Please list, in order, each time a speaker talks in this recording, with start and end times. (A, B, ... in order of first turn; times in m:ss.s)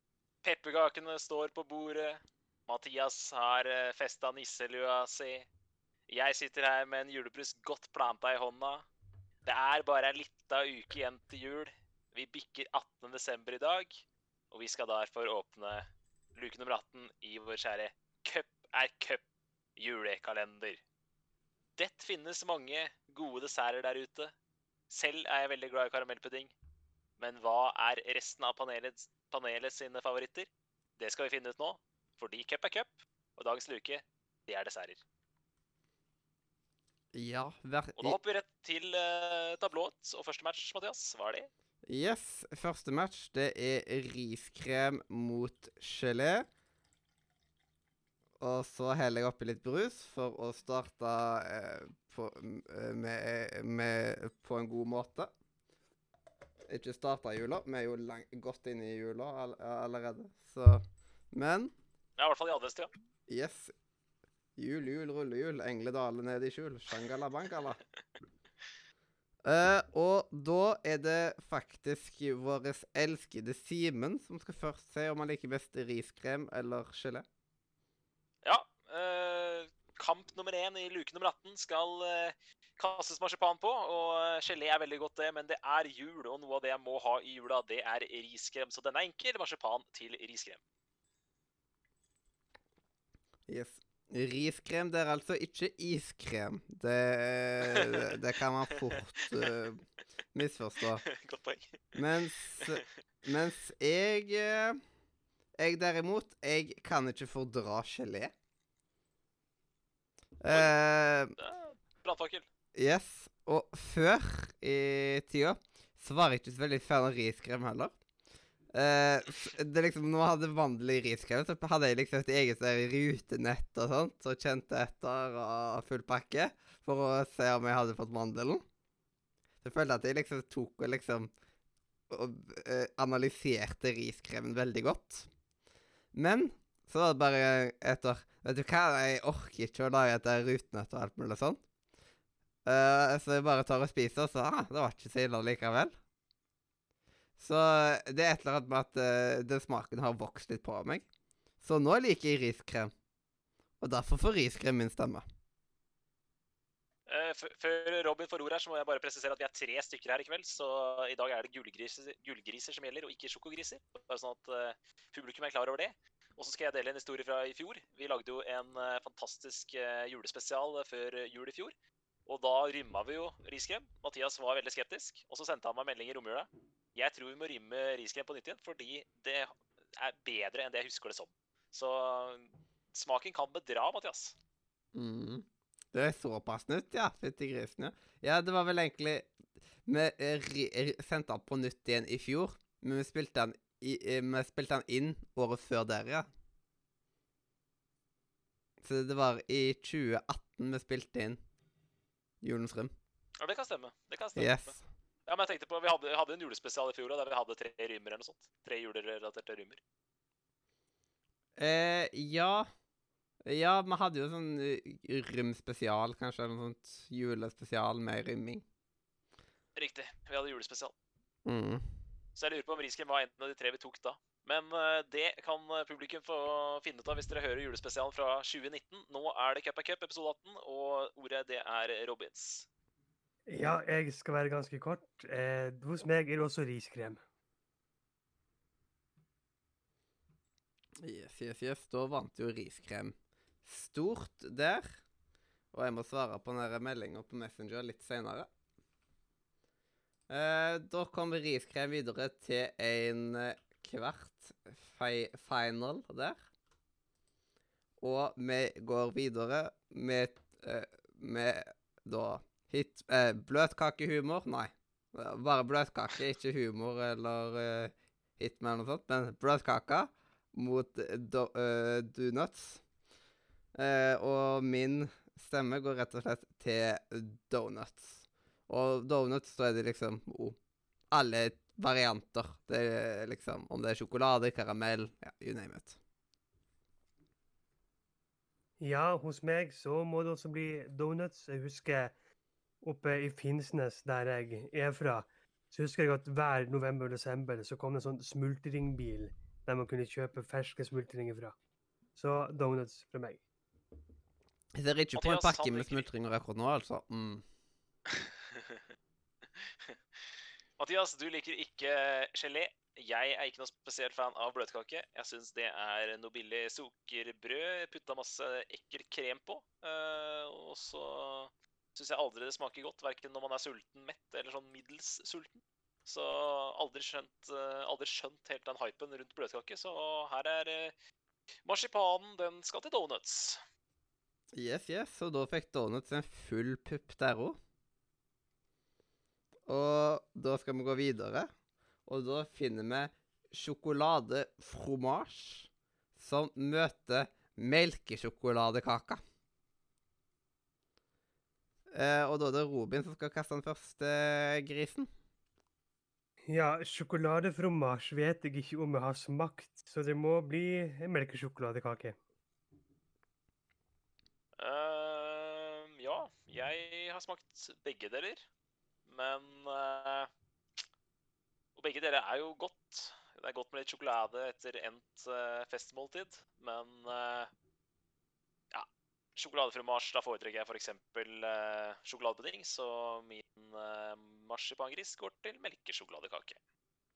0:00.4-0:05.5 A
0:06.1-0:08.9 A
0:09.4-0:19.2 A
0:19.8-0:20.8 A
0:21.8-0:24.3 A
0:24.9-0:26.5 A
0:27.2-0:35.0 A
0:37.1-0:38.2 B
0:38.0-0:41.5 A
0:41.9-0:46.5 B
0:48.4-0:55.3 B
0:56.7-1:01.7 B
1:02.2-1:02.9 A
1:03.3-1:03.7 B
1:04.6-1:07.8 B
1:09.4-1:17.3 B
1:18.4-1:30.6 A
1:33.5-1:39.8 B
1:37.8-1:38.0 A
1:38.9-1:39.6 A
1:40.3-1:41.0 B
1:41.0-1:42.0 A
1:42.0-1:44.8 B
1:45.6-1:48.3 B
1:50.4-1:51.4 B
1:51.4-1:52.5 A
1:52.8-1:58.0 B
1:58.7-2:08.6 B
2:09.6-2:11.3 B
2:12.1-2:15.3 B
2:16.1-2:21.6 B
2:22.7-2:26.0 B
2:27.4-2:31.0 B
2:31.6-2:32.9 B
2:33.8-2:35.2 B
2:37.1-2:51.7 A
2:52.3-3:04.4 A
3:04.9-3:09.3 B
3:09.8-3:16.3 B
3:18.8-3:21.4 B
3:22.4-3:22.9 B
3:23.4-3:24.8 A
3:24.4-3:24.8 B
3:25.3-3:29.8 A
3:31.6-3:32.7 B
3:33.5-3:38.6 B
3:39.8-3:40.9 A
3:41.4-3:41.9 B
3:42.4-3:52.7 A
3:53.5-3:57.2 C
4:01.0-4:05.0 B
4:05.7-4:08.5 B
4:10.3-4:16.4 B
4:18.0-4:32.8 B
4:33.8-4:40.6 B
4:41.1-4:46.0 B
4:48.8-4:52.1 C
4:52.8-5:01.5 C
5:02.2-5:03.4 C
5:04.8-5:07.4 B
5:05.2-5:06.1 A
5:08.1-5:08.8 A
5:09.6-5:10.0 A
5:10.8-5:30.9 A
5:31.6-5:33.6 A
5:34.6-5:37.6 B
5:39.7-5:41.5 B
5:42.1-5:49.2 B
5:51.9-5:55.1 B
5:56.5-6:02.2 C
6:04.6-6:08.4 A
6:09.1-6:10.3 A
6:11.8-6:17.5 A
6:18.7-6:26.6 A